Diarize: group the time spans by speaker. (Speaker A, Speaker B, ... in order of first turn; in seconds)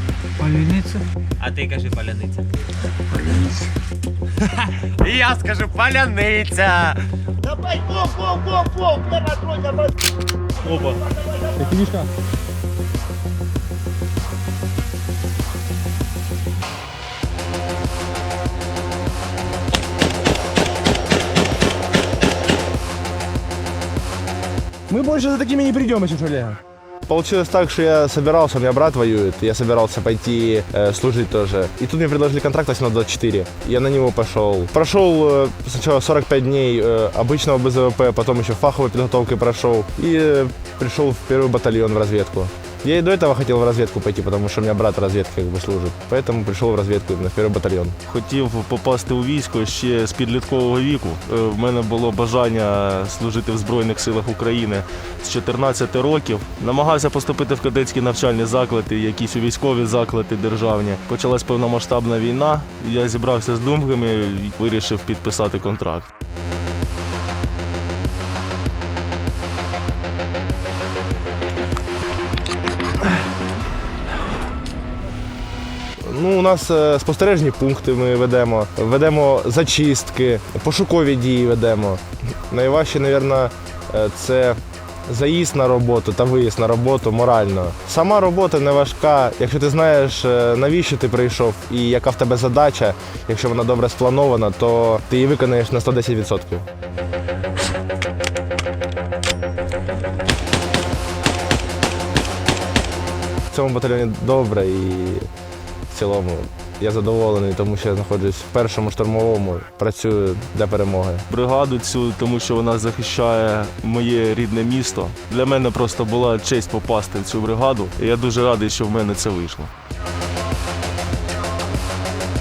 Speaker A: 0.8-2.4, 5.0-6.9, 8.8-9.8
Speaker B: 5.0-6.9, 7.5-9.9, 10.6-11.0
Speaker C: 11.6-12.1, 24.9-26.6
Speaker D: 27.1-48.0, 76.0-96.6, 103.5-105.3, 105.9-111.2
Speaker E: 48.1-66.0, 111.3-119.7